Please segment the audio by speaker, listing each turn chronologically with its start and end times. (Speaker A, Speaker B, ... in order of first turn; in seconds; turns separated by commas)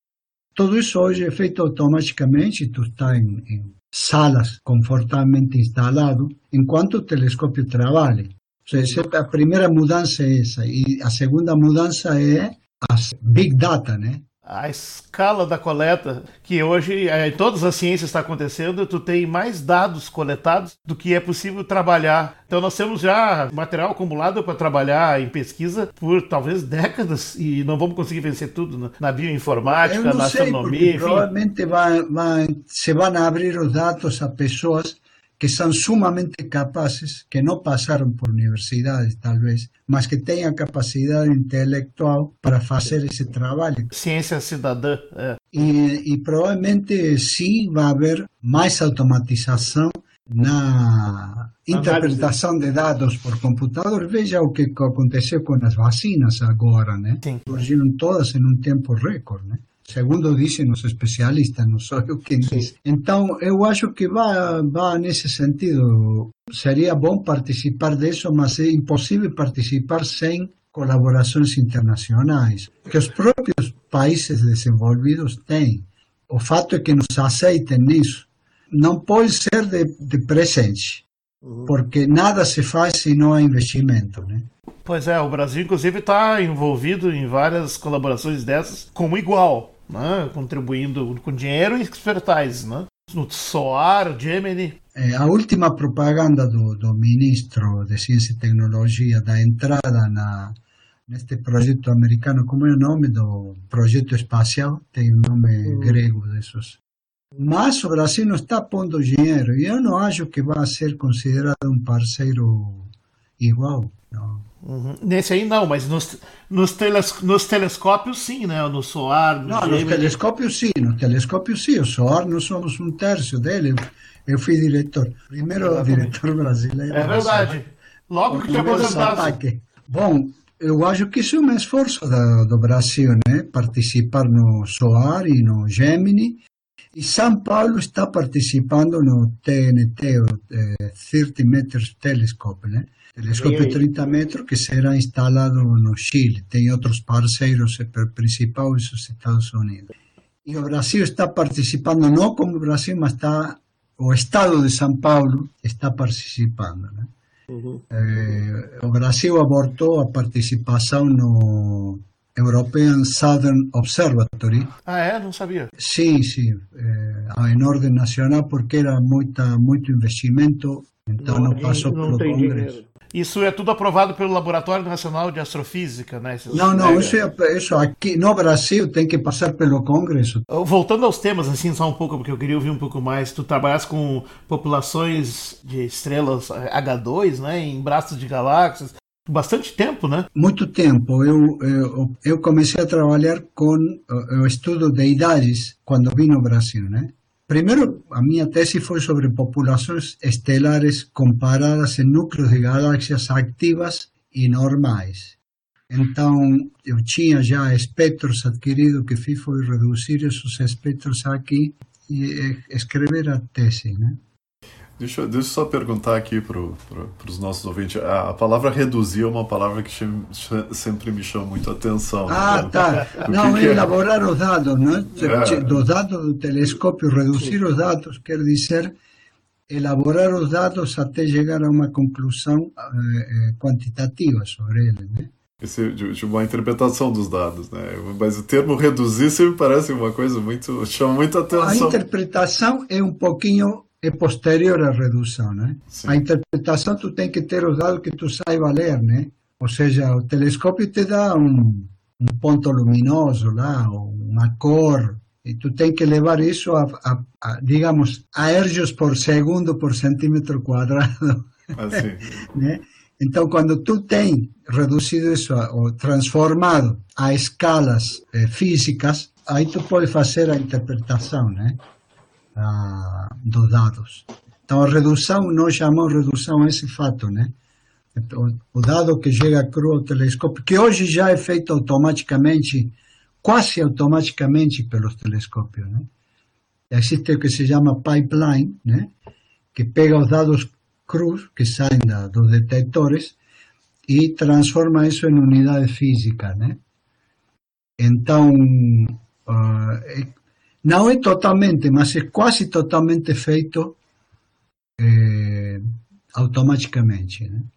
Speaker A: 0.6-14.2, Speaker B: 14.5-31.3, Speaker A: 29.8-43.9, Speaker B: 43.9-45.4, Speaker A: 45.5-81.0, Speaker B: 51.7-52.3, Speaker B: 57.2-57.5, Speaker B: 62.4-62.7, Speaker A: 81.7-84.5, Speaker B: 84.8-94.8, Speaker A: 95.0-106.8, Speaker B: 105.6-106.0, Speaker A: 107.4-114.5, Speaker B: 114.6-120.2, Speaker A: 119.5-127.6, Speaker B: 125.6-126.1, Speaker B: 126.9-129.4, Speaker A: 128.3-136.4, Speaker A: 136.9-149.9, Speaker B: 143.3-143.8, Speaker A: 150.4-157.1, Speaker B: 157.5-157.8, Speaker A: 157.9-164.7, Speaker B: 164.9-165.7, Speaker A: 165.8-172.8, Speaker B: 171.2-177.2, Speaker A: 176.5-180.4, Speaker B: 180.5-190.3, Speaker A: 190.3-205.4, Speaker A: 205.9-214.2, Speaker C: 215.0-223.9, Speaker A: 222.3-228.9, Speaker C: 225.2-225.7, Speaker A: 229.7-235.3, Speaker C: 235.6-242.0, Speaker A: 241.5-271.8, Speaker C: 245.9-246.2, Speaker C: 261.8-262.4, Speaker A: 272.6-277.5, Speaker A: 278.1-286.1, Speaker A: 286.9-289.1, Speaker A: 289.7-293.4, Speaker A: 294.1-296.8, Speaker A: 298.0-304.0, Speaker A: 305.0-307.7